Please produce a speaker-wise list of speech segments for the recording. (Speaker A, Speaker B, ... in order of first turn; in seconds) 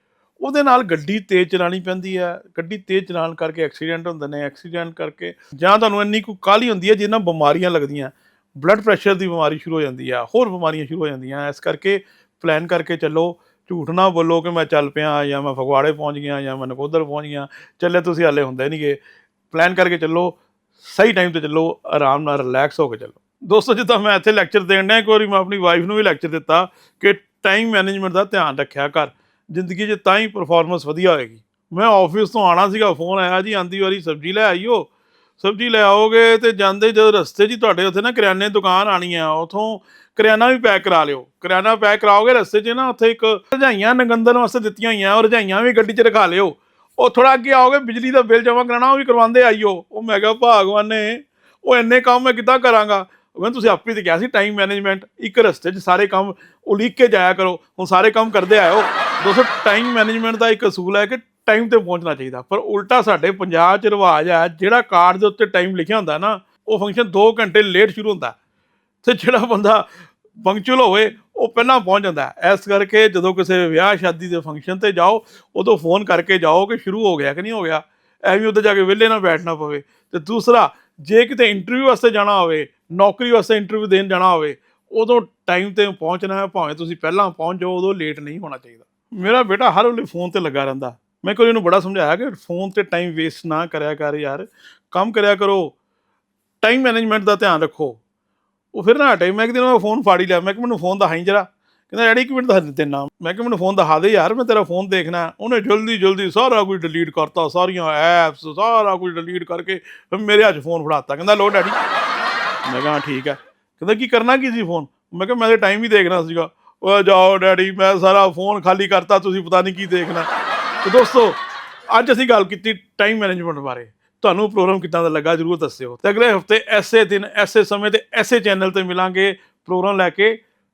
Speaker A: 0.4-68.4, 69.0-95.7, 96.6-98.0, 98.7-111.8, 112.7-120.3, 120.8-130.4